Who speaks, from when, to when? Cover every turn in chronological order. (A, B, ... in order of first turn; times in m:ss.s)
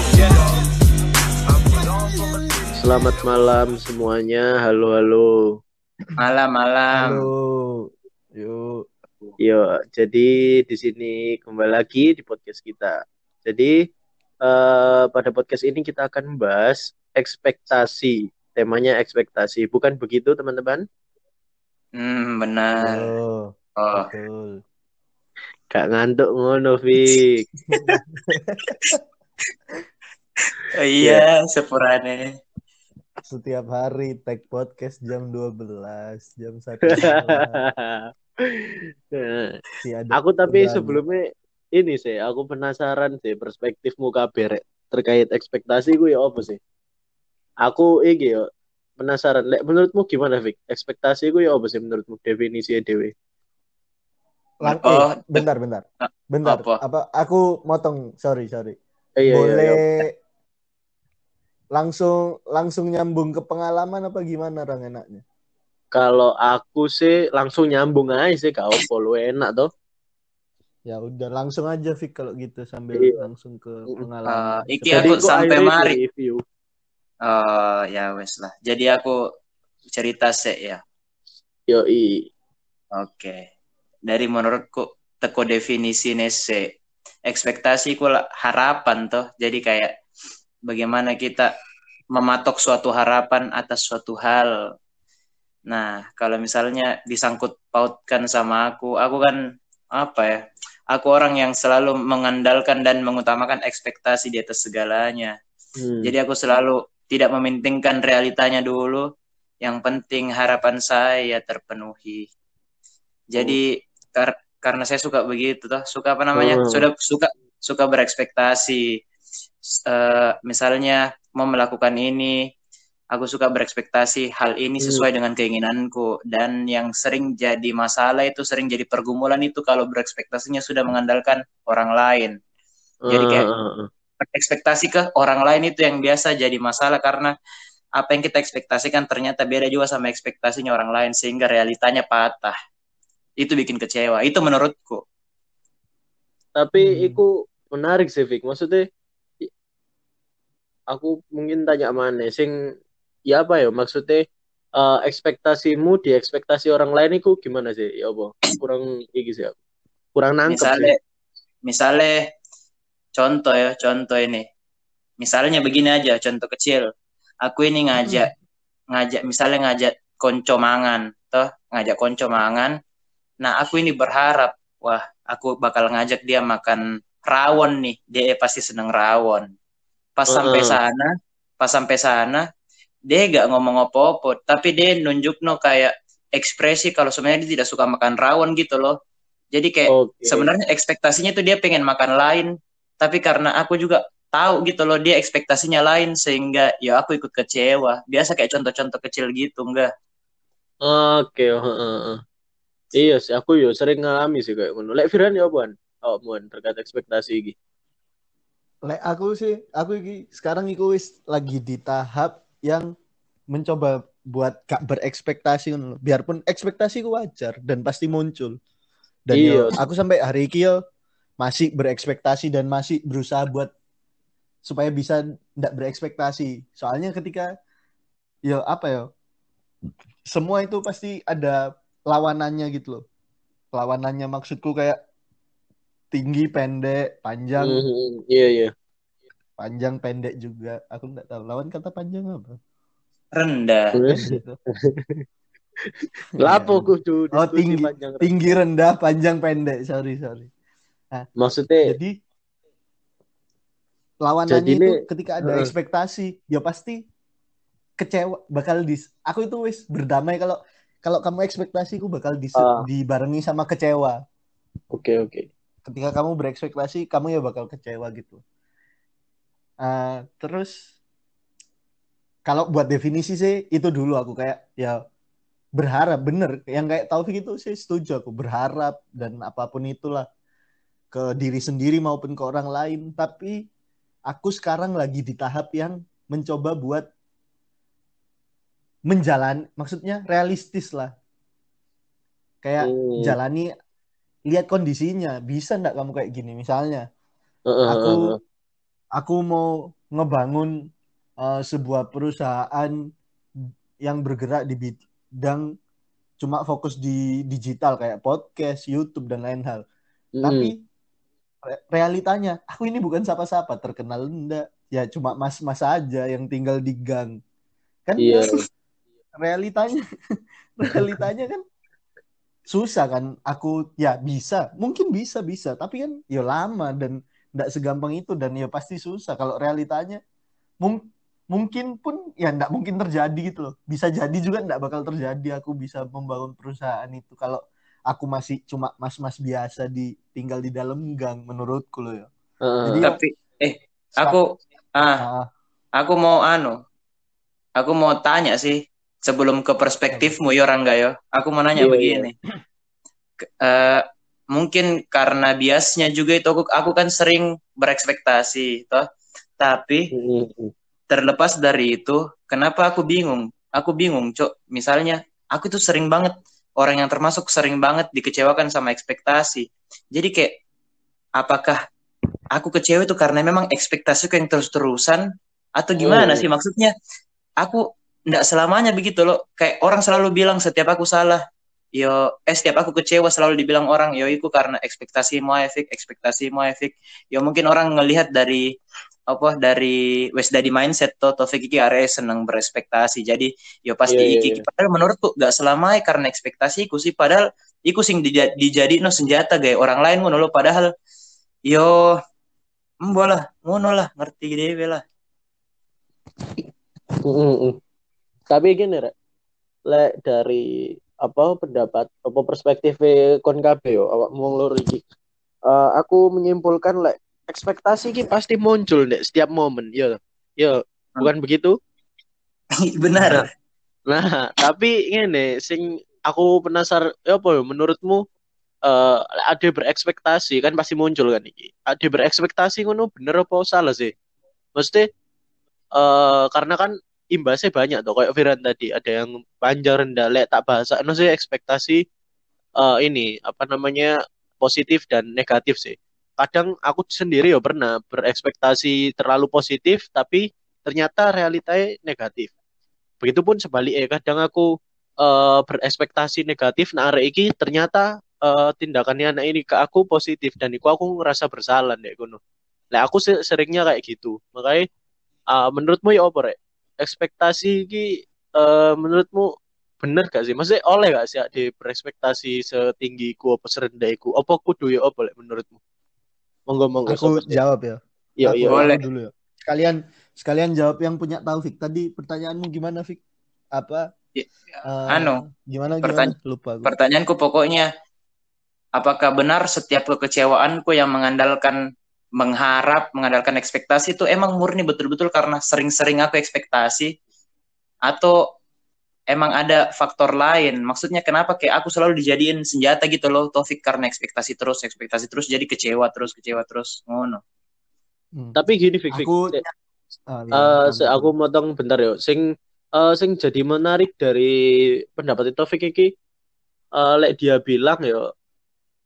0:02.8-0:05.4 A
0:06.2-0:07.3 B
0:06.9-0:08.9 C
0:09.4-0:12.9 A
0:13.4-0:13.7 A
0:14.4-0:20.8 A
0:22.0-0:23.1 B
0:22.8-0:24.6 C
0:23.8-0:24.1 B
0:25.7-0:27.4 A
0:27.7-0:29.0 C
0:27.7-0:28.0 B
0:30.6-0:32.3 B
0:31.0-0:31.3 A
0:33.2-0:37.6 C
0:36.9-0:39.6 A
0:39.8-0:41.0 C
0:40.1-0:41.2 A
0:41.8-0:46.6 A
0:47.6-0:48.4 A
0:49.0-0:53.1 A
0:54.6-0:55.4 B
0:54.6-0:58.8 C
0:56.0-0:56.8 B
0:59.2-0:59.8 A
0:59.3-1:00.1 C
1:01.8-1:05.2 C
1:05.9-1:09.7 A
1:10.9-1:15.3 C
1:12.9-1:13.2 A
1:14.3-1:16.0 B
1:14.9-1:16.4 A
1:17.2-1:19.2 B
1:19.9-1:20.8 B
1:21.7-1:22.3 A
1:22.9-1:23.4 B
1:24.1-1:26.7 B
1:27.3-1:29.9 B
1:30.7-1:31.5 B
1:32.1-1:34.5 B
1:35.7-1:39.4 B
1:39.9-1:40.4 B
1:40.9-1:45.3 B
1:45.8-1:46.1 A
1:46.0-1:49.0 B
1:49.6-1:52.3 B
1:53.3-1:59.0 B
1:56.4-1:56.8 A
1:59.7-2:02.4 B
2:03.1-2:12.4 B
2:04.8-2:05.0 A
2:13.1-2:13.9 A
2:13.1-2:13.4 B
2:14.2-2:17.3 B
2:18.0-2:22.5 B
2:23.4-2:25.0 B
2:26.6-2:28.8 A
2:26.8-2:27.2 C
2:30.9-2:32.5 A
2:33.3-2:34.2 A
2:34.8-2:39.6 A
2:40.2-2:40.9 A
2:40.5-2:41.0 B
2:41.6-2:42.2 B
2:43.2-2:44.4 B
2:45.2-2:46.8 B
2:47.4-2:48.3 B
2:48.9-2:52.7 B
2:53.4-2:59.5 B
3:00.2-3:01.1 B
3:00.3-3:00.8 A
3:01.6-3:02.4 B
3:03.1-3:09.0 B
3:09.5-3:12.5 B
3:09.9-3:10.5 A
3:13.0-3:19.9 B
3:20.8-3:22.2 A
3:22.9-3:27.6 A
3:28.8-3:32.9 C
3:33.5-3:38.6 C
3:39.3-3:40.8 C
3:39.3-3:39.8 A
3:41.4-3:43.7 C
3:44.6-3:47.5 C
3:48.5-3:49.0 C
3:50.3-3:53.0 C
3:53.7-3:55.0 C
3:56.1-3:57.8 C
3:57.6-3:58.7 A
3:59.6-4:02.6 C
4:03.3-4:04.0 B
4:03.9-4:04.4 A
4:04.0-4:04.6 C
4:04.9-4:05.2 A
4:06.4-4:08.5 A
4:06.4-4:10.5 C
4:11.4-4:12.0 A
4:11.8-4:12.1 C
4:14.2-4:17.0 C
4:14.5-4:15.7 A
4:18.0-4:24.2 C
4:22.6-4:22.9 A
4:24.9-4:25.5 A
4:25.8-4:28.4 C
4:29.8-4:30.7 C
4:32.5-4:35.0 C
4:35.8-4:40.2 C
4:41.1-4:43.5 C
4:44.3-4:47.0 C
4:49.1-4:51.1 C
4:52.6-4:53.7 C
4:52.8-4:53.3 A
4:54.5-4:57.0 C
4:57.7-4:58.4 A
4:57.9-4:58.3 C
4:59.2-5:00.7 C
5:01.4-5:03.0 C
5:04.0-5:05.6 C
5:06.4-5:09.8 C
5:10.4-5:10.7 A
5:10.4-5:10.8 C
5:11.6-5:17.4 C
5:18.1-5:18.5 C
5:18.2-5:18.6 A
5:19.4-5:20.0 C
5:20.8-5:21.6 C
5:22.7-5:30.2 C
5:30.8-5:42.3 C
5:42.6-5:43.1 A
5:42.8-5:43.2 C
5:43.0-5:45.2 B
5:45.2-5:45.5 C
5:46.0-5:46.8 B
5:47.8-5:52.3 B
5:51.8-5:52.3 A
5:53.4-5:59.0 B
5:59.6-6:00.1 B
6:00.1-6:00.7 A
6:01.1-6:10.6 B
6:11.4-6:11.8 B
6:12.5-6:15.2 B
6:15.8-6:16.9 B
6:16.0-6:16.5 A
6:17.6-6:21.4 B
6:22.0-6:28.6 B
6:29.3-6:40.9 B
6:34.1-6:34.6 A
6:41.7-6:42.1 B
6:43.0-6:45.0 B
6:47.2-6:47.8 A
6:48.5-6:49.1 A
6:49.9-6:55.0 A
6:55.7-7:01.8 A
7:02.9-7:03.5 B
7:04.1-7:08.2 A
7:08.9-7:14.1 A
7:14.8-7:15.0 A
7:16.0-7:22.0 A
7:22.8-7:32.5 A
7:33.2-7:34.7 A
7:35.2-7:42.4 A
7:42.9-7:44.9 A
7:45.5-7:55.8 A
7:56.7-7:57.6 A
7:57.1-8:03.2 C
7:58.4-7:58.8 A
7:58.7-7:59.0 B
8:03.8-8:04.1 C
8:04.8-8:06.9 C
8:05.1-8:05.4 B
8:06.0-8:06.3 B
8:06.8-8:07.9 B
8:09.0-8:11.8 B
8:12.4-8:17.1 B
8:18.1-8:18.4 B
8:19.3-8:27.4 B
8:28.6-8:29.6 A
8:29.1-8:29.7 C
8:30.3-8:31.3 C
8:30.5-8:32.4 A
8:33.0-8:34.5 A
8:35.2-8:36.1 A
8:37.0-8:38.2 A